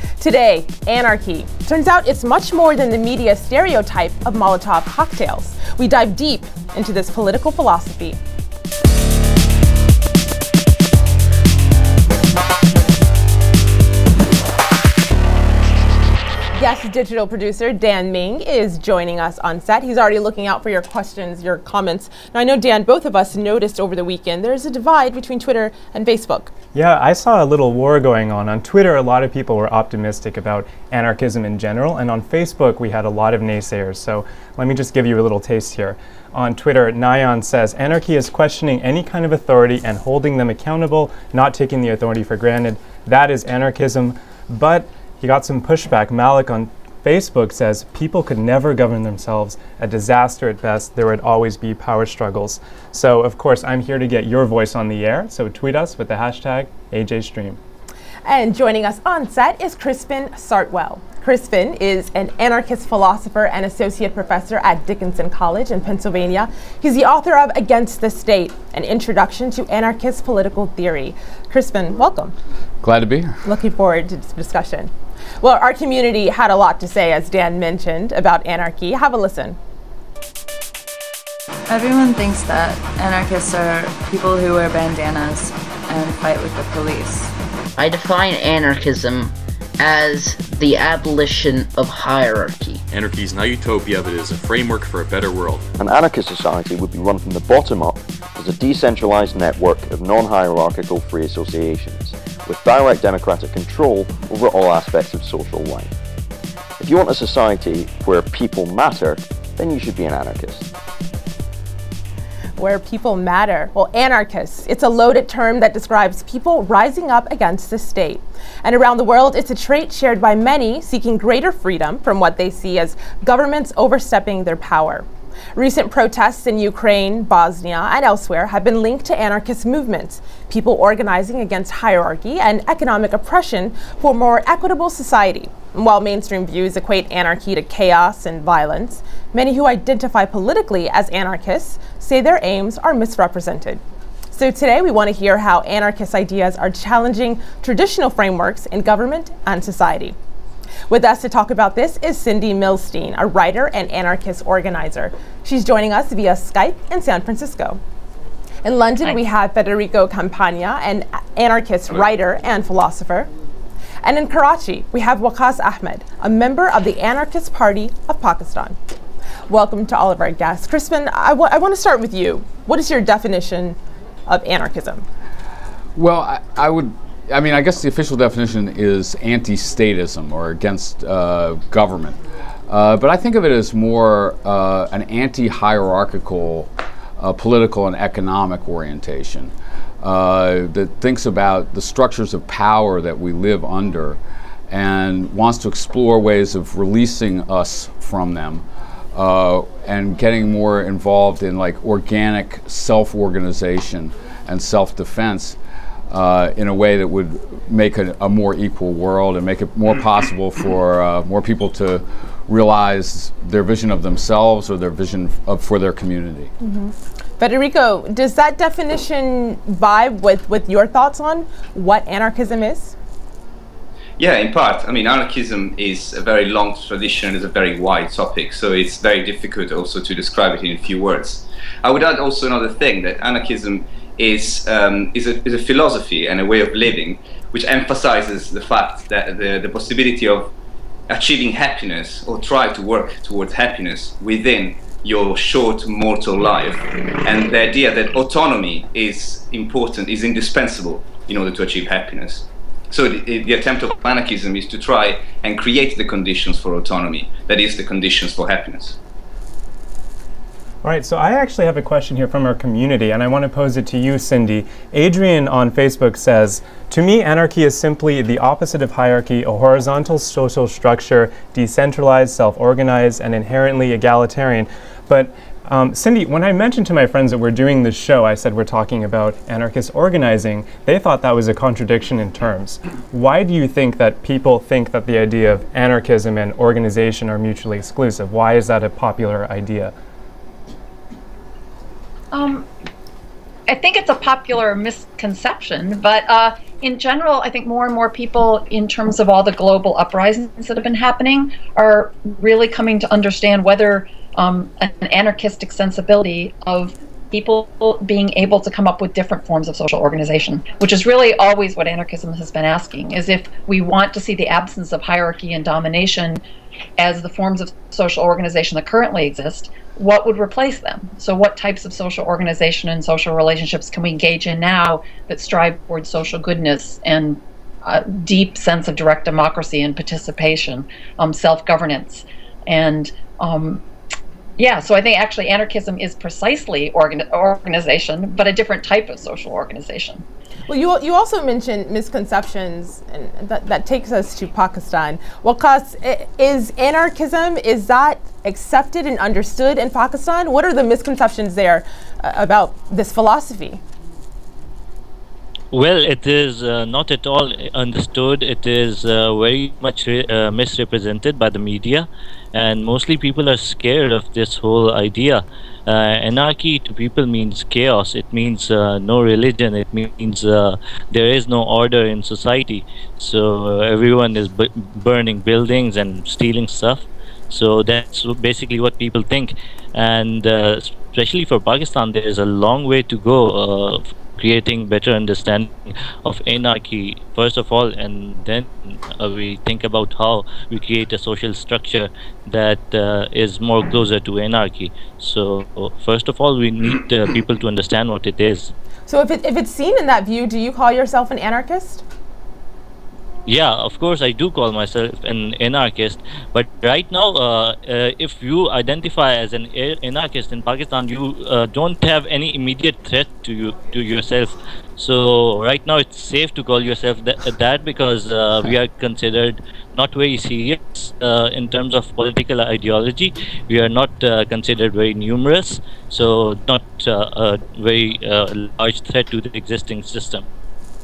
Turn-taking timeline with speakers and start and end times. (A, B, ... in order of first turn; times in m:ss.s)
0:00.2-0:08.2 A
0:16.6-0:26.5 A
0:26.7-0:57.6 B
0:58.3-1:12.3 A
1:12.8-1:13.4 C
1:13.4-1:14.9 A
1:15.4-1:19.6 A
1:21.7-1:27.3 D
1:27.8-1:32.8 E
1:32.9-1:35.7 F
1:35.8-1:45.9 G
1:46.8-1:50.7 G
1:52.6-2:23.8 A
2:24.3-2:30.2 A
2:30.9-2:37.8 A
2:38.6-2:43.3 A
2:44.0-2:48.8 A
2:49.5-2:55.0 A
2:56.0-3:02.2 C
3:02.7-3:14.2 C
3:14.7-3:25.6 C
3:26.1-3:36.5 C
3:36.6-3:42.9 A
3:44.2-4:00.5 H
4:01.1-4:19.0 H
4:20.8-4:49.9 B
4:52.3-4:52.7 I
4:53.7-5:16.4 I
5:17.0-5:33.8 I
5:34.6-5:40.2 I
5:40.7-5:53.8 A
5:55.7-6:38.7 J
6:39.1-6:42.0 A
6:43.5-7:10.5 J